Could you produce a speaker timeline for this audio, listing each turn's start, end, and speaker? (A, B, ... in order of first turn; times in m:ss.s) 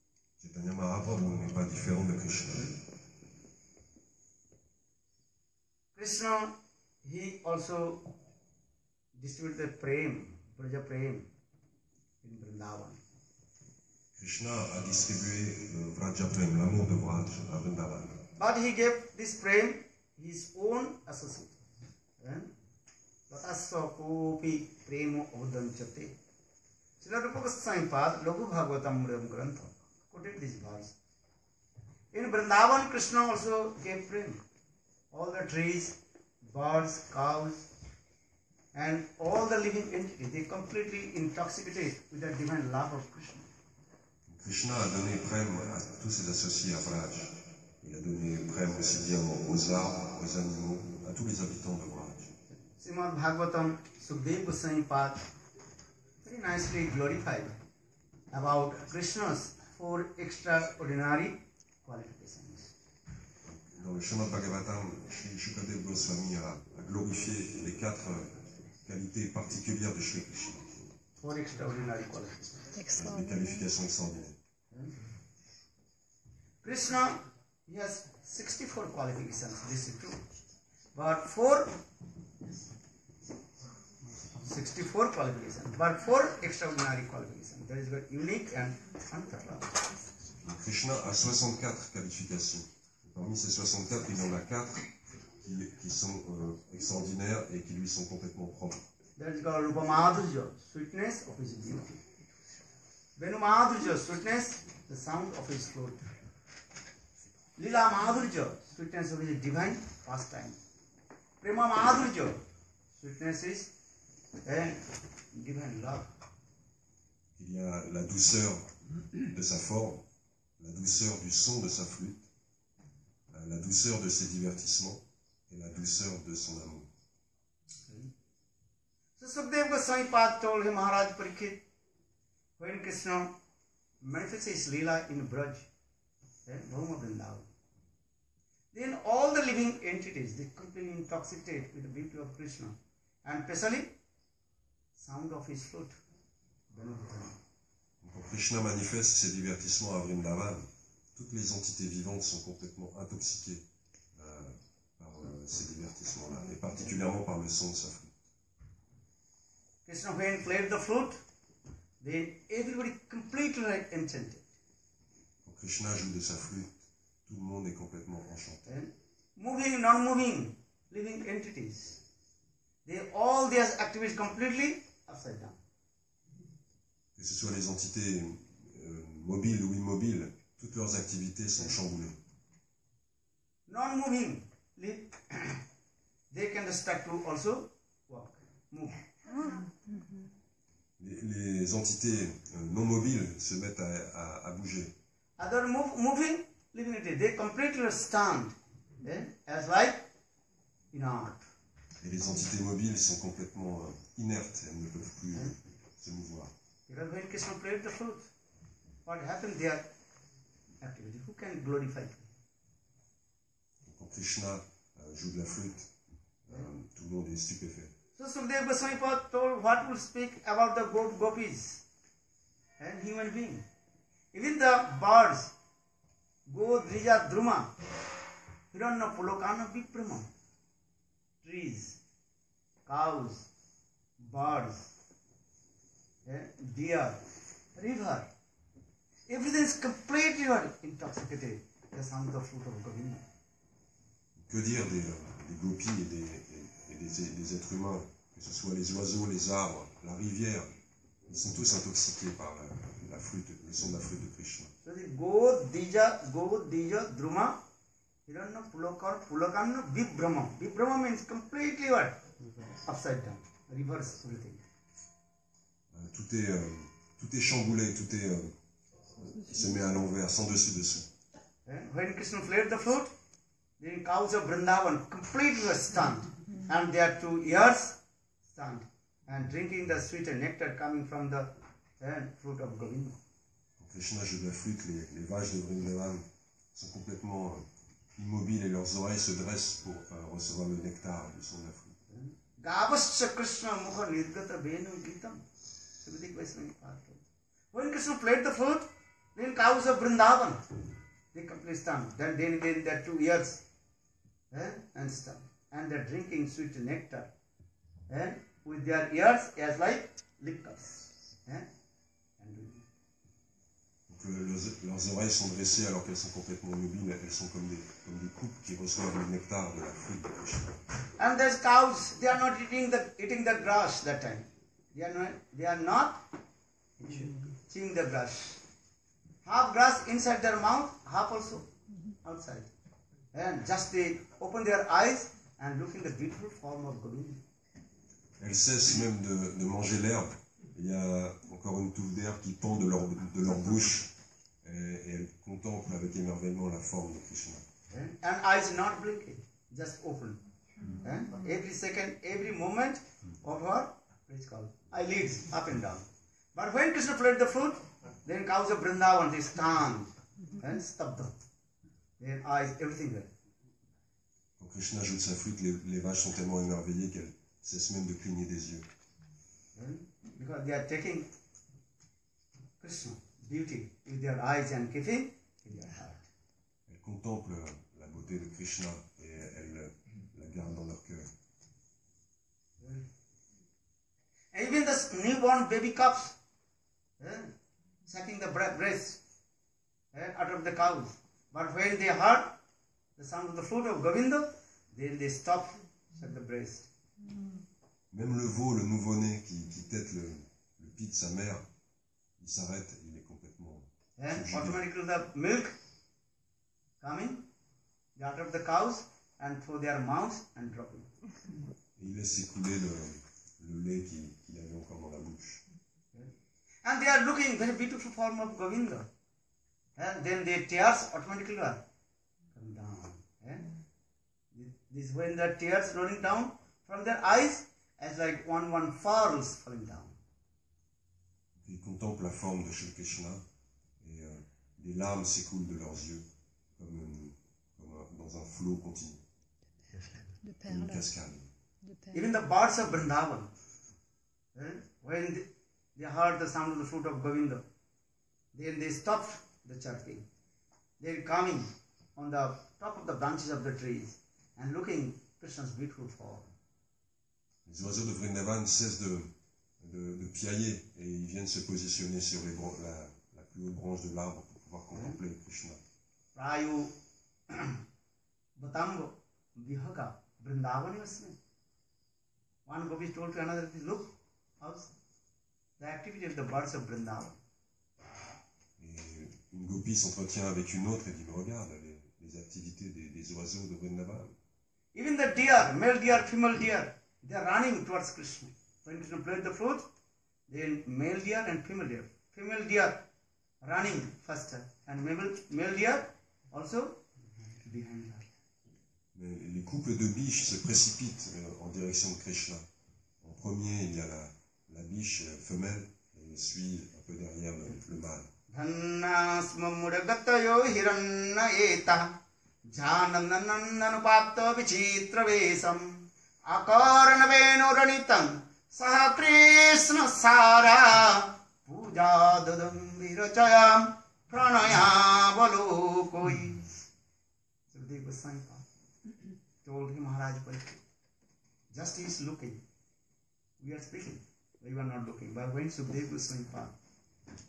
0:00.4-0:02.8 A
0:05.9-0:06.5 B
0:07.0-0:08.0 B
0:09.2-0:11.3 B
0:12.2-0:13.0 B
0:14.2-0:18.2 A
0:18.4-0:21.5 B
0:22.2-0:22.5 B
0:23.3-0:26.2 B
0:27.0-0:30.9 B
0:32.1-0:34.4 B
0:35.1-0:37.6 B
0:38.7-0:43.5 B
0:44.3-0:52.3 A
0:52.8-0:55.2 B
0:56.2-0:57.5 B
0:58.3-1:02.7 B
1:03.4-1:11.0 A
1:11.2-1:12.8 B
1:12.8-1:13.6 C
1:12.9-1:14.4 A
1:16.6-1:20.2 B
1:20.9-1:21.8 B
1:24.4-1:29.8 B
1:30.4-1:34.8 A
1:35.4-1:38.8 A
1:39.2-1:42.0 B
1:43.2-1:46.1 B
1:47.6-1:50.6 B
1:51.4-1:52.4 B
1:53.0-1:53.7 B
1:54.4-1:54.8 B
1:55.3-1:56.1 B
1:57.4-1:58.7 A
1:59.3-2:00.0 A
2:00.6-2:02.2 A
2:03.3-2:06.9 A
2:07.8-2:08.1 B
2:09.2-2:11.6 B
2:12.6-2:13.3 B
2:14.0-2:15.7 B
2:16.4-2:17.5 B
2:18.7-2:23.9 B
2:25.0-2:26.0 B
2:26.7-2:27.4 B
2:28.0-2:33.6 A
2:34.1-2:38.1 A
2:39.8-2:41.2 B
2:42.0-2:44.4 B
2:45.4-2:48.6 A
2:48.6-2:52.0 B
2:52.8-2:55.6 B
2:57.2-3:02.2 A
3:03.7-3:05.6 B
3:06.3-3:09.0 B
3:11.0-3:14.9 A
3:15.4-3:20.0 B
3:20.9-3:21.5 B
3:22.0-3:26.5 A
3:26.9-3:28.3 B
3:29.0-3:29.9 B
3:30.8-3:32.2 B
3:33.8-3:35.9 A
3:36.4-3:37.9 A
3:38.2-3:41.8 B
3:42.8-3:43.6 B
3:44.3-3:45.5 B
3:46.5-3:47.7 B
3:48.7-3:50.3 B
3:51.4-3:52.0 B
3:52.8-3:53.5 B
3:54.2-3:54.9 B
3:56.2-3:57.2 B
3:57.8-3:58.3 B
3:59.3-4:03.2 B
4:04.4-4:10.7 A
4:11.3-4:14.7 A
4:14.8-4:17.6 B
4:18.3-4:22.2 B
4:22.8-4:24.6 B
4:25.9-4:28.6 A
4:29.4-4:31.1 A
4:31.6-4:33.1 B
4:33.8-4:38.0 B
4:38.5-4:43.2 B
4:43.8-4:52.0 A
4:52.1-4:55.4 B
4:56.0-4:57.2 B
4:57.7-5:00.6 B
5:01.3-5:03.6 B
5:04.5-5:07.3 B
5:08.1-5:11.7 B
5:12.4-5:12.8 B
5:14.1-5:20.8 A
5:21.2-5:26.2 B
5:27.0-5:28.6 B
5:29.4-5:31.7 B
5:32.2-5:32.7 B
5:33.3-5:37.4 B
5:38.4-5:44.1 A
5:44.6-5:47.6 A
5:47.9-5:50.4 B
5:51.0-6:01.4 B
6:02.2-6:03.3 B
6:04.6-6:08.9 A
6:09.7-6:11.3 B
6:12.8-6:16.2 B
6:16.9-6:21.3 A
6:22.8-6:23.1 B
6:24.5-6:26.4 B
6:27.2-6:27.5 B
6:28.0-6:29.2 B
6:30.1-6:32.6 B
6:33.2-6:36.9 B
6:38.1-6:41.6 A
6:42.4-6:44.8 A
6:44.2-6:45.8 B
6:47.0-6:47.4 B
6:48.2-6:51.1 B
6:52.0-6:55.6 A
6:56.8-6:59.1 B
7:00.0-7:01.8 B
7:02.5-7:03.7 B
7:04.5-7:10.2 B
7:11.6-7:13.4 A
7:14.0-7:16.2 A
7:16.8-7:19.2 A
7:20.4-7:21.1 C
7:20.7-7:21.5 A
7:21.8-7:22.3 C
7:22.1-7:23.5 B
7:24.5-7:27.6 B
7:28.5-7:30.3 B
7:31.0-7:36.5 B
7:37.6-7:45.8 A
7:46.3-7:46.9 B
7:47.5-7:47.8 B
7:48.6-7:51.4 B
7:52.6-7:54.9 B
7:55.8-7:57.4 B
7:58.8-8:04.3 A
8:04.9-8:09.9 B
8:10.5-8:13.0 B
8:13.6-8:17.0 B
8:17.6-8:18.3 B
8:19.1-8:22.6 A
8:23.2-8:28.3 A
8:28.5-8:32.1 B
8:32.7-8:46.6 B
8:47.7-8:48.6 B
8:49.6-8:50.8 B
8:51.7-8:52.6 B
8:53.6-8:56.7 B